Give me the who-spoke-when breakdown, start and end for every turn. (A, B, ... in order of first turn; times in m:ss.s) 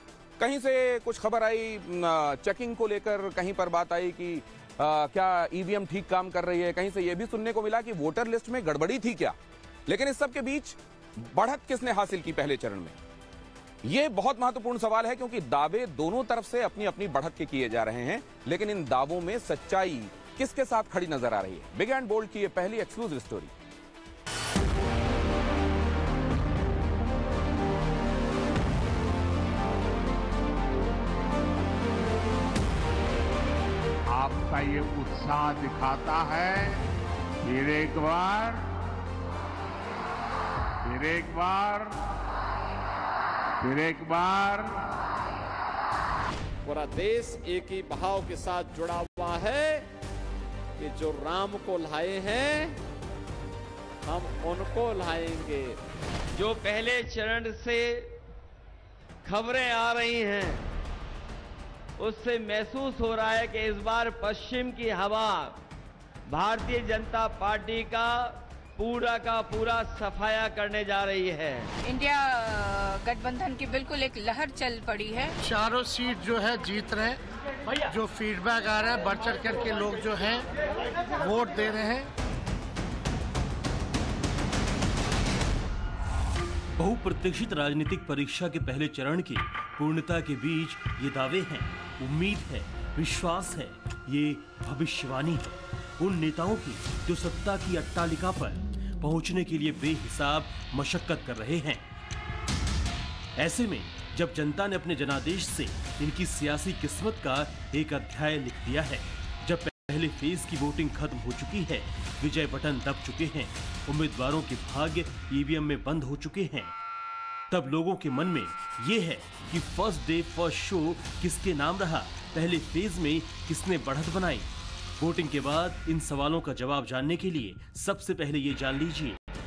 0:00.4-0:09.4 A
0:09.9-0:13.0 A
0:13.8-0:23.5 A
0:34.1-0:36.8 B
0:37.4-0:38.6 B
0:40.8-0:42.0 B
0:43.6-0:44.7 B
0:46.6-0:49.9 C
0:50.8-0:52.8 C
0:54.1-0:55.8 C
0:56.3-0:58.1 D
0:59.2-1:00.6 D
1:02.0-1:05.6 D
1:06.3-1:11.7 D
1:11.9-1:15.3 E
1:13.1-1:15.3 C
1:15.4-1:17.2 F
1:17.9-1:20.4 F
1:21.2-1:22.0 F
1:26.8-1:41.9 G
1:43.4-1:56.8 G
1:57.5-2:09.2 G